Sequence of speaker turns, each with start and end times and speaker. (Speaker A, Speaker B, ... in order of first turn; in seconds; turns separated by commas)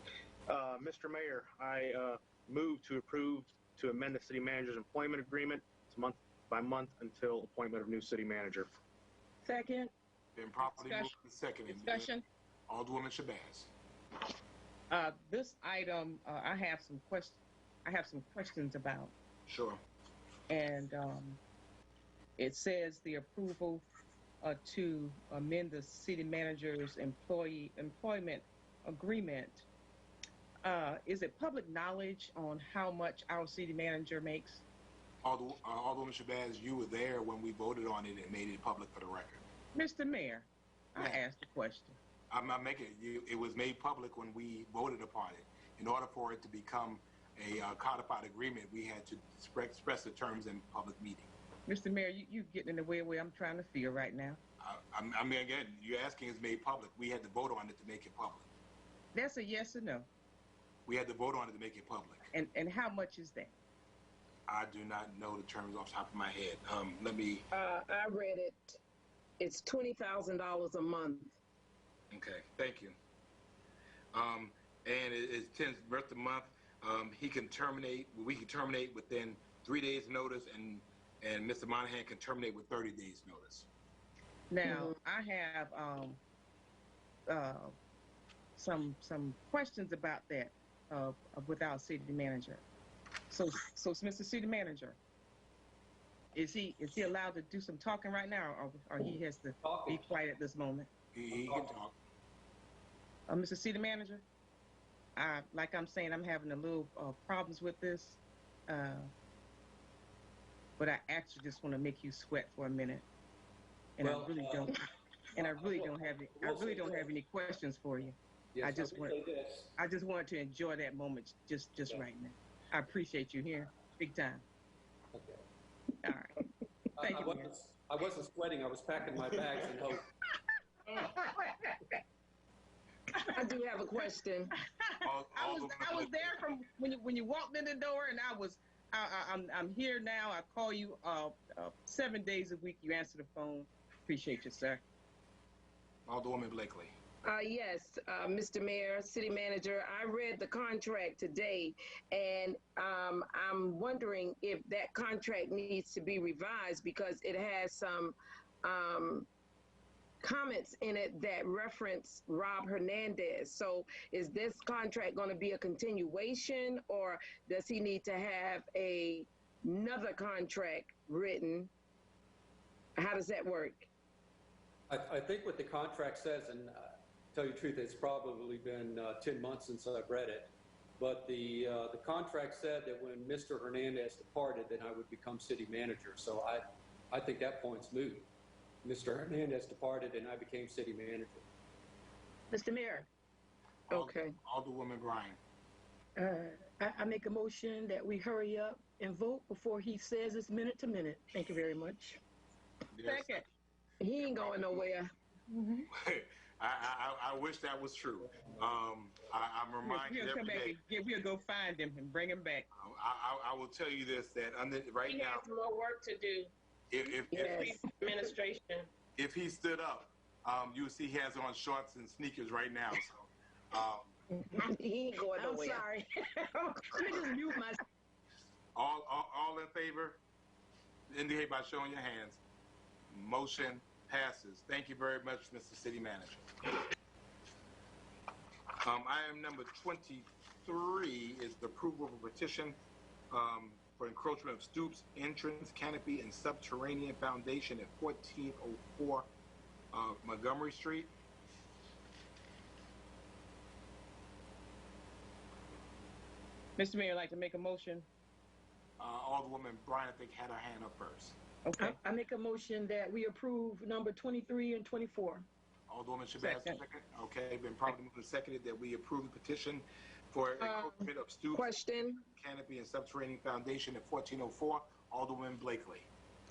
Speaker A: 0.5-8.7, Speaker B: 9.4-9.9, Speaker C: 10.3-12.1, Speaker D: 10.6-11.1, Speaker D: 11.7-12.2, Speaker C: 12.7-13.7, Speaker D: 14.9-19.1, Speaker C: 19.5-19.8, Speaker D: 20.5-21.4, Speaker D: 22.4-23.8, Speaker D: 24.4-29.6, Speaker D: 30.6-34.6, Speaker C: 35.2-39.4, Speaker D: 39.7-42.0, Speaker C: 42.3-51.3, Speaker D: 51.7-54.4, Speaker C: 54.6-58.5, Speaker D: 59.1-60.1, Speaker C: 60.9-62.3, Speaker D: 62.3-63.5, Speaker C: 64.5-67.5, Speaker E: 67.5-68.8, Speaker E: 69.4-71.3, Speaker C: 72.1-73.0, Speaker C: 74.1-83.7, Speaker D: 84.5-86.2, Speaker E: 84.7-84.9, Speaker D: 87.3-87.8, Speaker D: 88.5-92.6, Speaker D: 93.3-95.0, Speaker D: 96.3-100.9, Speaker F: 99.6-100.1, Speaker C: 101.1-102.0, Speaker F: 101.3-101.7, Speaker D: 103.3-104.2, Speaker D: 105.2-109.1, Speaker D: 110.8-113.0, Speaker D: 114.0-119.2, Speaker F: 114.0-114.8, Speaker F: 115.3-117.1, Speaker F: 118.5-119.7, Speaker D: 119.8-124.4, Speaker F: 125.1-125.4, Speaker D: 126.0-126.4, Speaker F: 127.0-130.0, Speaker D: 127.0-127.5, Speaker D: 131.0-131.3, Speaker E: 133.3-134.5, Speaker D: 134.6-144.8, Speaker C: 135.0-136.4, Speaker C: 146.1-146.9, Speaker E: 147.2-159.3, Speaker E: 160.2-171.7, Speaker E: 173.0-173.9, Speaker F: 174.9-188.3, Speaker F: 188.8-191.4, Speaker B: 192.5-193.1, Speaker C: 193.9-195.4, Speaker E: 193.9-194.3, Speaker B: 196.2-202.2, Speaker C: 202.9-203.4, Speaker D: 203.0-203.4, Speaker E: 204.0-205.1, Speaker C: 204.2-204.7, Speaker D: 205.5-205.9, Speaker C: 205.9-210.8, Speaker D: 209.8-212.7, Speaker C: 212.8-215.4, Speaker G: 215.1-216.5, Speaker E: 215.2-215.5, Speaker C: 216.9-217.7, Speaker E: 217.3-218.3, Speaker G: 217.4-218.8, Speaker C: 219.2-224.1, Speaker E: 224.4-225.8, Speaker B: 225.3-226.1, Speaker B: 226.8-227.8, Speaker C: 228.7-230.2, Speaker C: 231.1-232.4, Speaker C: 233.1-236.5, Speaker C: 238.8-242.8, Speaker C: 243.3-249.3, Speaker C: 249.9-251.1, Speaker D: 256.8-258.1, Speaker C: 259.0-261.4, Speaker D: 261.6-262.0, Speaker B: 261.8-265.4, Speaker C: 265.9-271.7, Speaker D: 266.4-266.8, Speaker E: 270.6-272.2, Speaker C: 272.2-276.1